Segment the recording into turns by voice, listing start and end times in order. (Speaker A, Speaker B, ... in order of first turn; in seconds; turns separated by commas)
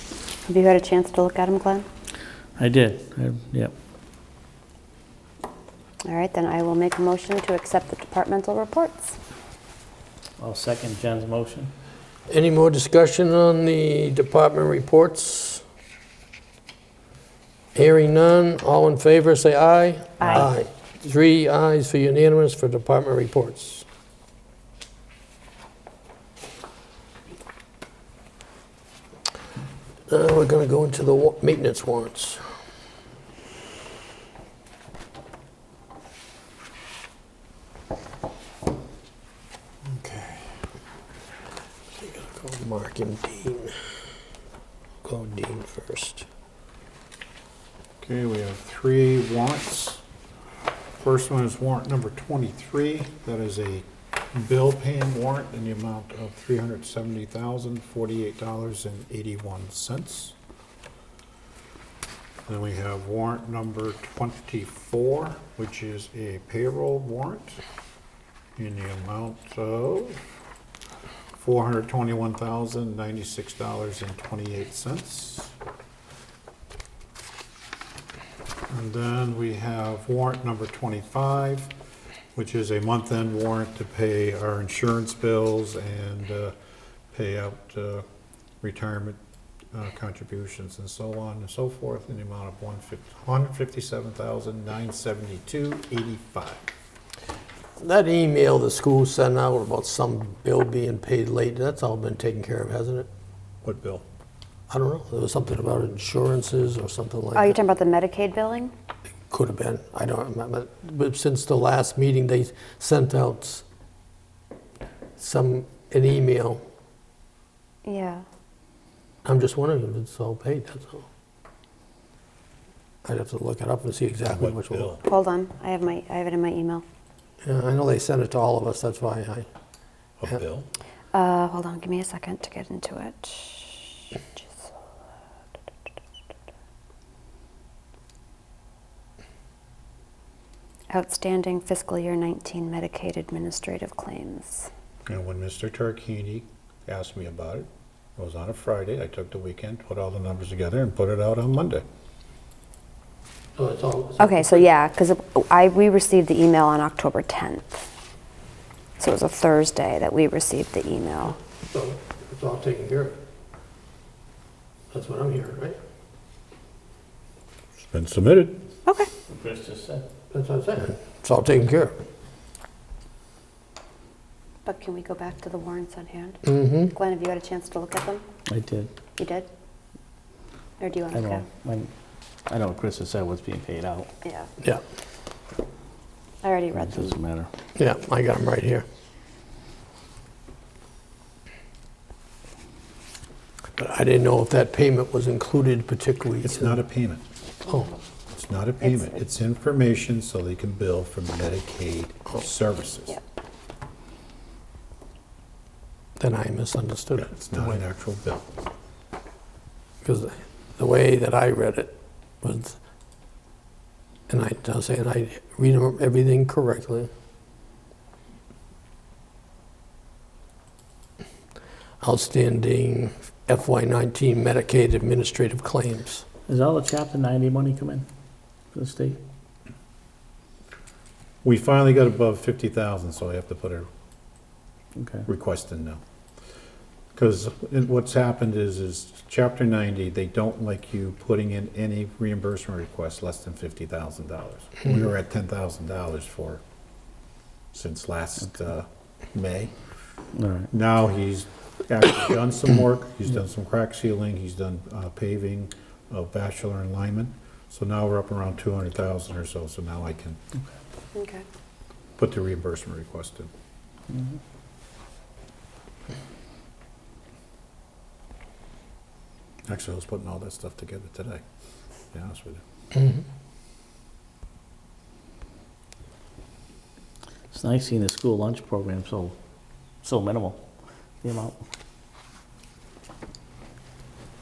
Speaker A: 0.5-1.9, Speaker B: 2.6-3.7, Speaker A: 6.0-9.2, Speaker B: 10.4-11.7, Speaker C: 12.3-15.6, Speaker C: 17.8-23.9, Speaker C: 30.1-32.5, Speaker D: 39.9-40.7, Speaker C: 42.0-44.0, Speaker C: 45.0-46.3, Speaker D: 48.0-50.0, Speaker D: 51.0-60.4, Speaker D: 62.5-67.6, Speaker D: 68.6-70.2, Speaker D: 71.4-75.5, Speaker D: 78.7-81.7, Speaker D: 82.3-86.5, Speaker D: 87.1-88.0, Speaker D: 88.6-89.2, Speaker D: 89.7-96.7, Speaker C: 97.8-103.1, Speaker D: 103.6-104.0, Speaker C: 104.7-107.6, Speaker A: 107.3-108.7, Speaker C: 109.3-113.6, Speaker C: 115.2-116.6, Speaker A: 117.8-118.2, Speaker C: 119.2-121.1, Speaker C: 123.0-125.0, Speaker D: 124.3-125.0, Speaker A: 125.0-126.8, Speaker C: 127.4-129.5, Speaker D: 130.2-130.7, Speaker A: 131.1-134.7, Speaker A: 140.9-144.7, Speaker D: 145.1-151.8, Speaker C: 153.6-154.7, Speaker A: 154.2-157.8, Speaker A: 159.0-161.4, Speaker C: 161.7-163.2, Speaker C: 164.9-165.8, Speaker D: 167.8-168.6, Speaker B: 169.3-170.1, Speaker C: 170.3-172.0, Speaker A: 174.7-178.2, Speaker C: 176.4-176.9, Speaker B: 178.5-178.9, Speaker A: 179.2-179.5, Speaker A: 180.8-181.5, Speaker B: 181.1-181.9, Speaker B: 182.5-184.1, Speaker A: 184.2-184.5, Speaker A: 186.4-187.1, Speaker B: 186.8-187.5, Speaker C: 187.8-188.8, Speaker C: 193.8-196.8, Speaker D: 196.4-197.2, Speaker C: 197.7-197.9, Speaker D: 198.3-203.2, Speaker C: 206.2-207.8, Speaker D: 207.2-208.5, Speaker C: 210.0-212.8, Speaker C: 214.3-217.1, Speaker C: 222.0-226.2, Speaker B: 226.5-228.1, Speaker B: 228.7-229.2, Speaker D: 231.4-233.9, Speaker B: 235.0-235.3, Speaker D: 235.3-236.0, Speaker D: 237.2-246.6, Speaker D: 247.7-249.7, Speaker B: 250.3-250.7, Speaker D: 250.7-260.4, Speaker A: 261.1-261.4, Speaker D: 262.2-263.5, Speaker B: 264.1-264.4, Speaker D: 269.7-271.4, Speaker D: 272.1-272.6, Speaker B: 277.5-279.4, Speaker B: 280.0-280.6, Speaker B: 281.2-281.6